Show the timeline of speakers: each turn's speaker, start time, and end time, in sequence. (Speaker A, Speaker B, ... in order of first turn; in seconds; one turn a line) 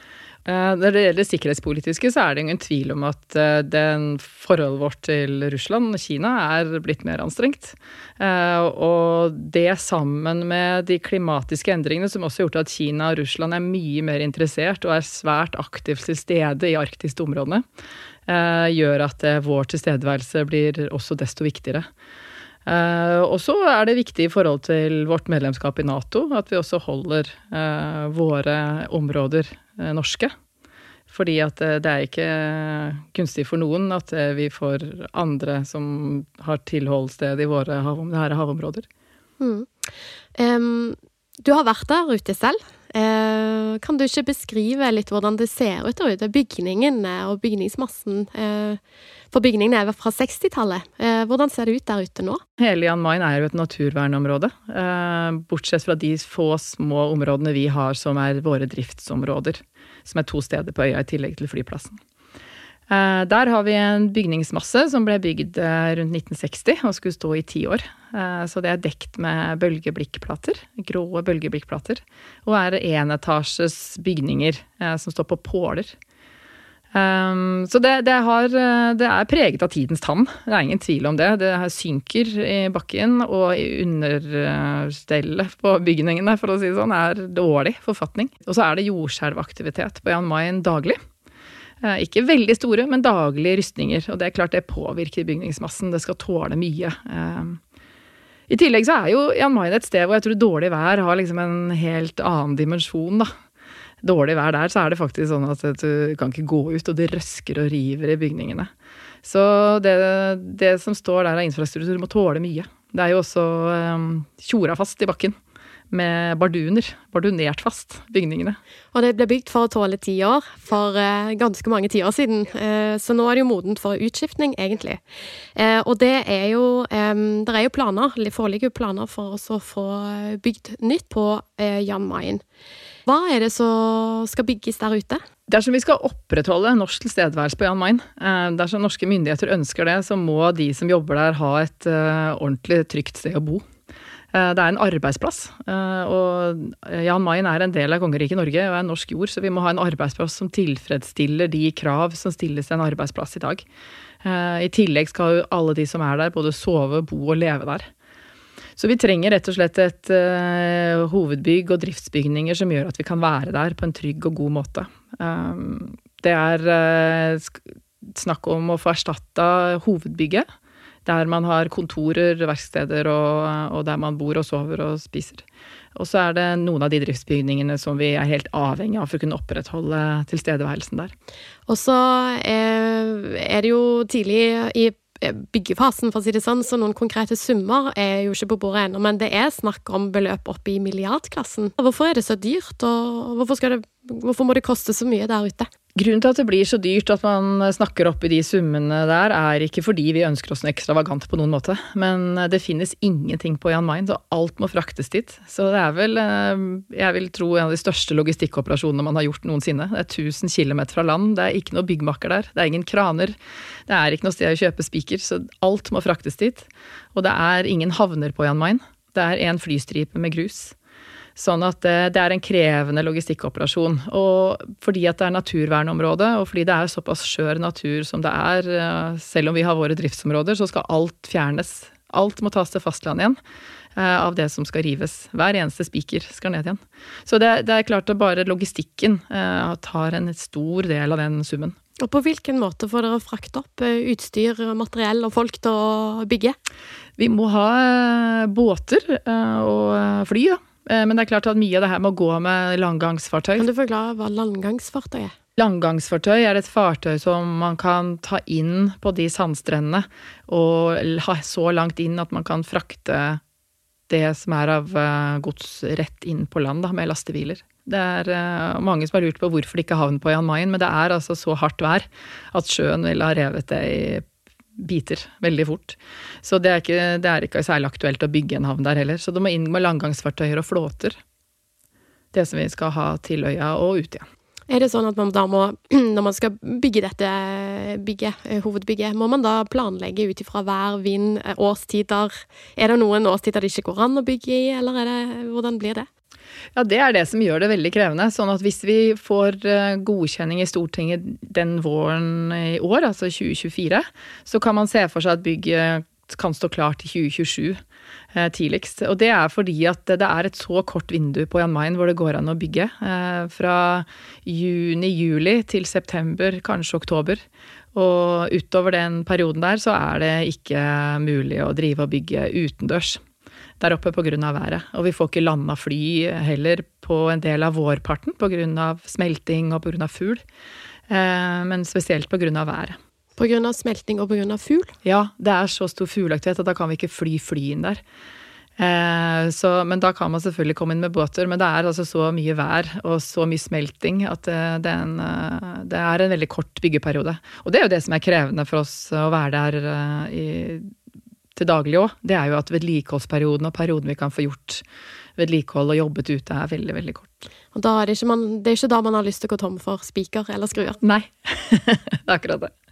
Speaker A: 0.5-17.6
Speaker A: 18.3-21.9
Speaker A: 22.7-30.3
Speaker A: 31.1-38.9
Speaker B: 39.4-39.7
Speaker B: 40.4-48.8
Speaker B: 49.3-52.4
Speaker A: 52.6-62.0
Speaker A: 62.9-75.9
Speaker A: 76.9-91.0
Speaker A: 91.8-97.6
Speaker A: 98.5-103.3
Speaker A: 104.0-108.7
Speaker A: 109.2-115.3
Speaker A: 115.9-118.6
Speaker B: 118.9-125.0
Speaker B: 125.5-132.4
Speaker B: 133.1-135.2
Speaker A: 135.5-143.7
Speaker A: 144.3-153.7
Speaker A: 154.2-157.9
Speaker A: 158.8-170.5
Speaker A: 171.1-175.4
Speaker A: 175.9-181.1
Speaker B: 181.7-195.7
Speaker A: 196.0-213.4
Speaker A: 213.9-220.8
Speaker A: 221.4-233.4
Speaker A: 233.9-241.8
Speaker B: 242.0-246.6
Speaker A: 247.2-253.7
Speaker B: 253.6-255.3
Speaker A: 255.6-263.4
Speaker A: 264.1-274.3
Speaker A: 274.8-281.2
Speaker A: 282.3-284.3
Speaker B: 284.7-296.1
Speaker A: 296.8-307.8
Speaker A: 308.3-317.4
Speaker A: 317.9-323.2
Speaker A: 323.8-330.4
Speaker A: 331.1-333.0
Speaker B: 333.4-334.9
Speaker A: 335.0-338.0
Speaker A: 338.8-350.9
Speaker A: 351.6-354.8
Speaker A: 355.4-357.4
Speaker B: 357.7-361.0
Speaker A: 361.0-362.7